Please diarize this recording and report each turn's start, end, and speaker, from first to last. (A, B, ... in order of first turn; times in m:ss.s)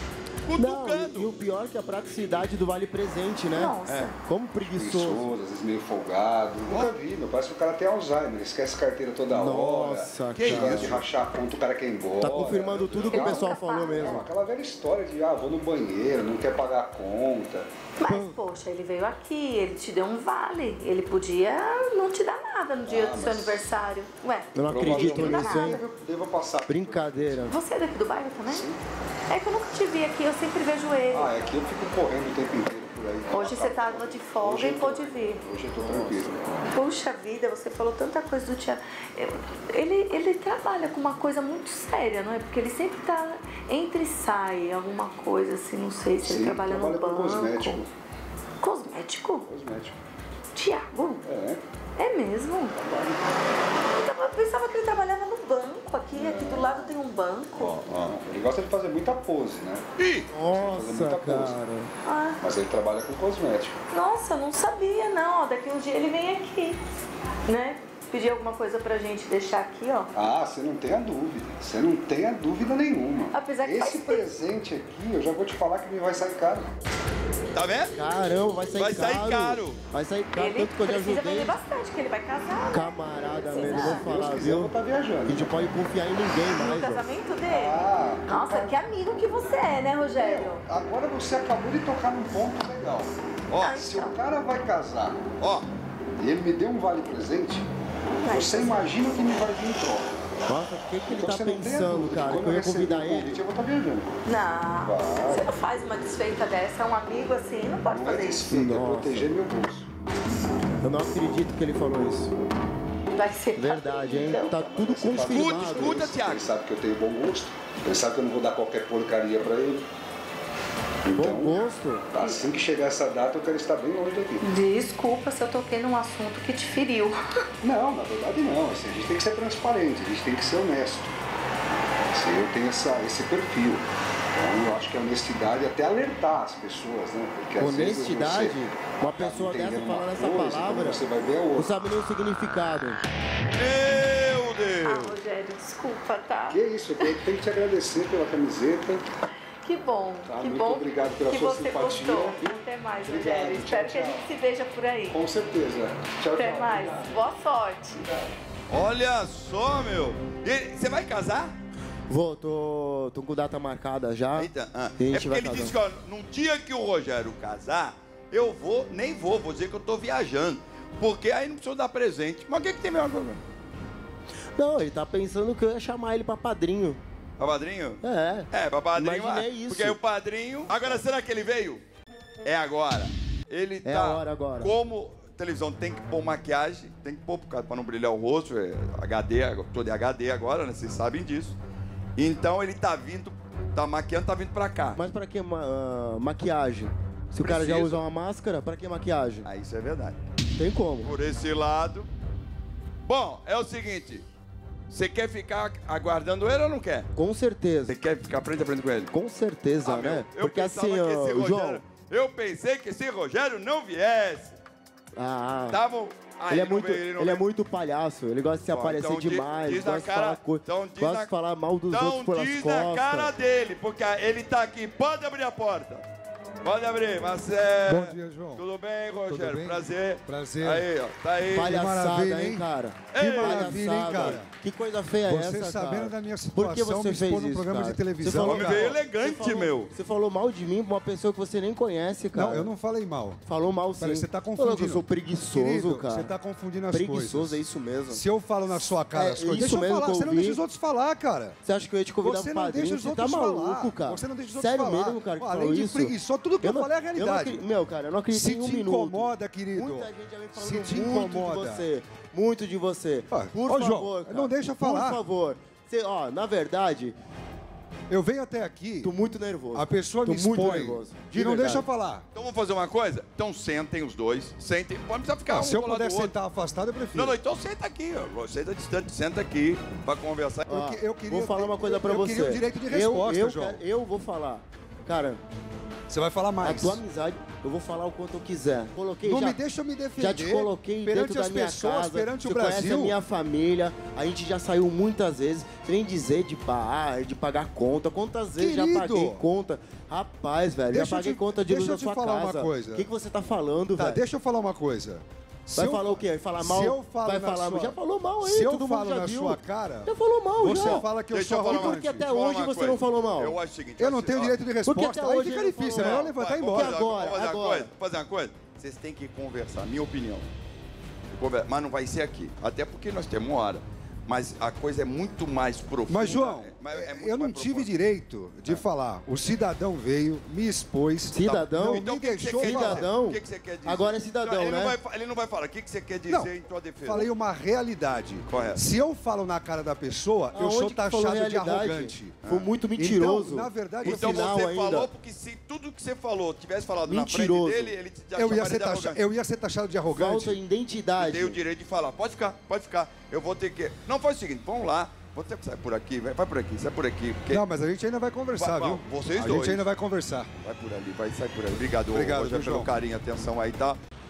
0:00.4-0:01.3 A
0:00.6-0:05.3 B
0:03.6-0:04.2 C
0:03.9-0:04.1 A
0:04.6-0:17.7 D
0:09.3-0:11.0 B
0:10.3-0:11.0 A
0:12.2-0:14.3 B
0:13.1-0:14.2 C
0:18.0-0:25.8 C
0:18.1-0:18.4 B
0:22.8-0:23.6 D
0:24.6-0:25.8 B
0:24.7-0:27.5 D
0:26.7-0:27.6 B
0:27.5-0:28.7 C
0:28.4-0:28.8 D
0:29.3-0:31.4 C
0:31.1-0:36.7 D
0:33.3-0:35.4 C
0:35.8-0:36.6 B
0:36.7-0:47.9 C
0:46.2-0:47.9 D
0:48.6-0:49.5 C
0:49.4-0:50.0 D
0:50.5-0:51.2 C
0:51.2-0:51.6 D
0:52.0-0:52.8 C
0:52.8-0:53.2 D
0:54.0-0:57.8 C
0:56.1-0:57.0 D
0:57.6-0:58.1 A
0:57.8-0:59.8 D
1:00.0-1:00.3 A
1:00.3-1:01.9 B
1:00.5-1:01.6 D
1:02.0-1:02.4 C
1:02.4-1:03.8 D
1:03.9-1:06.8 C
1:07.5-1:10.1 C
1:10.1-1:16.7 D
1:13.3-1:14.3 C
1:17.5-1:17.9 A
1:17.9-1:21.5 B
1:18.8-1:19.8 A
1:20.4-1:24.1 C
1:22.7-1:24.7 B
1:23.6-1:25.6 D
1:25.3-1:27.1 B
1:26.5-1:30.6 C
1:27.4-1:28.8 D
1:30.2-1:33.2 D
1:33.5-1:33.8 A
1:33.6-1:34.2 C
1:33.7-1:35.2 D
1:35.4-1:35.7 A
1:36.2-1:37.7 D
1:38.1-1:39.2 C
1:38.3-1:40.1 D
1:40.5-1:43.4 B
1:41.0-1:44.2 D
1:44.2-1:48.5 C
1:44.8-1:45.5 D
1:47.9-1:49.9 D
1:48.5-1:49.3 B
1:50.8-1:52.3 B
1:53.1-1:54.6 C
1:53.6-1:56.1 B
1:54.1-1:59.9 D
1:55.2-1:56.5 A
2:01.0-2:01.6 D
2:01.2-2:02.1 B
2:02.1-2:04.5 D
2:04.4-2:07.2 C
2:07.6-2:11.2 D
2:12.0-2:21.7 D
2:17.6-2:21.0 B
2:21.6-2:23.0 B
2:23.6-2:25.2 A
2:24.8-2:27.2 C
2:26.5-2:29.0 D
2:29.6-2:35.2 C
2:30.3-2:34.3 D
2:35.1-2:37.2 D
2:36.3-2:38.1 C
2:38.0-2:38.3 D
2:38.7-2:41.5 A
2:42.1-2:45.8 B
2:44.4-2:53.4 A
2:54.6-2:57.0 B
2:57.4-3:01.8 A
2:58.0-3:00.0 B
3:02.4-3:11.6 A
3:03.8-3:04.8 B
3:12.2-3:15.0 A
3:15.0-3:19.5 B
3:17.4-3:18.0 A
3:19.4-3:20.2 A
3:20.6-3:21.1 B
3:21.0-3:22.1 A
3:23.0-3:24.2 A
3:24.9-3:27.1 A
3:27.2-3:28.0 B
3:27.9-3:29.1 A
3:29.1-3:31.8 B
3:29.8-3:34.6 A
3:35.2-3:35.8 B
3:35.7-3:37.4 A
3:36.5-3:43.3 B
3:38.7-3:41.3 A
3:41.9-3:46.1 A
3:46.6-3:51.8 A
3:47.9-3:48.6 E
3:49.3-3:50.9 E
3:51.6-4:02.7 B
3:51.6-3:52.7 E
3:53.1-3:54.4 A
3:53.2-3:54.5 E
3:55.3-3:59.0 E
3:58.4-3:59.9 A
4:02.3-4:03.4 E
4:03.4-4:06.4 B
4:04.0-4:11.6 E
4:06.9-4:10.6 B
4:11.6-4:27.2 B
4:12.2-4:17.6 E
4:18.3-4:21.9 E
4:23.3-4:25.2 E
4:28.1-4:29.1 E
4:29.0-4:31.9 B
4:29.7-4:32.2 E
4:32.4-4:36.3 A
4:35.5-4:37.4 E
4:37.1-4:40.7 A
4:40.7-4:45.4 B
4:40.7-4:43.8 E
4:46.1-4:47.0 E
4:46.6-4:49.6 B
4:49.2-4:53.2 E
4:50.2-5:04.2 B
4:58.6-4:59.5 E
5:00.9-5:03.1 E
5:04.0-5:12.2 E
5:05.8-5:11.1 B
5:10.8-5:14.5 A
5:11.7-5:13.6 B
5:14.0-5:17.1 E
5:14.8-5:17.9 B
5:15.9-5:20.5 A
5:21.3-5:27.9 A
5:26.1-5:33.1 E
5:31.3-5:35.0 B
5:31.4-5:37.3 A
5:37.0-5:42.4 E
5:38.5-5:38.8 A
5:40.5-5:45.1 B
5:42.4-5:42.7 A
5:43.0-5:44.6 E
5:44.0-5:49.2 A
5:47.1-5:48.0 B
5:48.4-5:50.6 E
5:50.1-5:51.6 B
5:51.2-5:57.6 A
5:57.5-6:00.5 E
5:58.6-5:59.8 A
6:00.6-6:04.0 A
6:02.1-6:02.9 E